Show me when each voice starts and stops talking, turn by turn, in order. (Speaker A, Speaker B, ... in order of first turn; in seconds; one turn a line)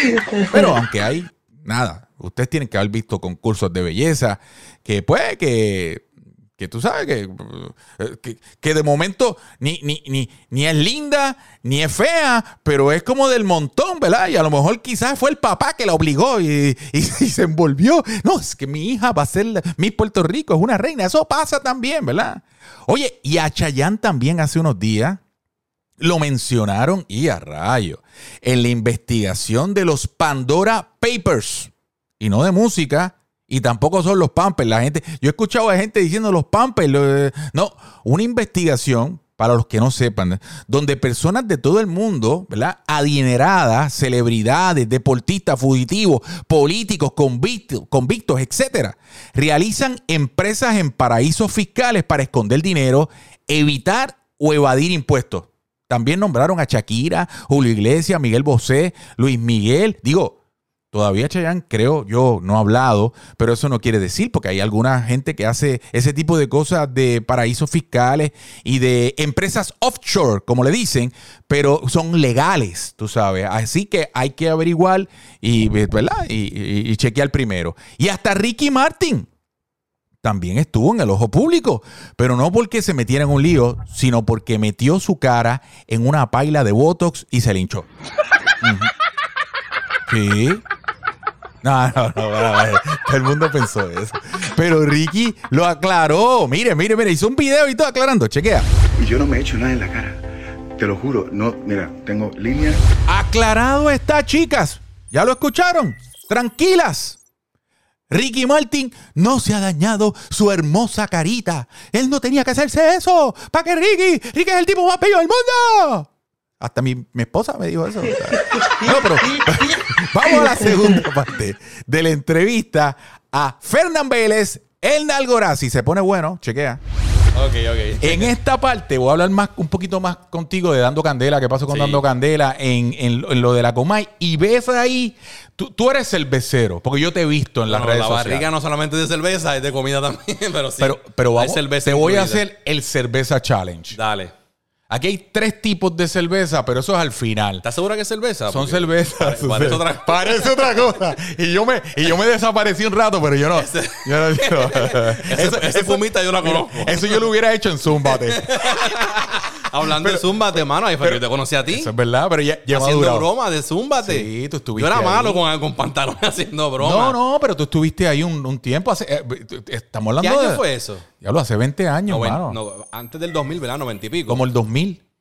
Speaker A: 0.5-25.2
Speaker A: 26.0-60.3
Speaker A: 60.9-79.3
Speaker A: 80.2-87.9
Speaker A: 88.6-88.9
Speaker A: 90.1-90.6
Speaker A: 91.6-98.7
Speaker B: 99.0-102.8
Speaker A: 103.1-107.2
Speaker A: 108.1-116.1
Speaker A: 116.6-126.8
Speaker C: 127.3-128.3
Speaker A: 128.0-138.4
Speaker C: 131.7-132.0
Speaker C: 137.7-142.4
Speaker A: 140.8-144.0
Speaker C: 143.9-144.3
Speaker A: 144.9-147.6
Speaker C: 147.6-150.7
Speaker A: 148.5-158.5
Speaker C: 153.5-157.2
Speaker C: 158.0-161.9
Speaker A: 160.0-163.3
Speaker C: 162.7-167.2
Speaker A: 164.0-165.4
Speaker A: 166.8-170.6
Speaker C: 170.2-171.1
Speaker A: 171.2-172.6
Speaker C: 172.1-174.4
Speaker A: 174.3-175.0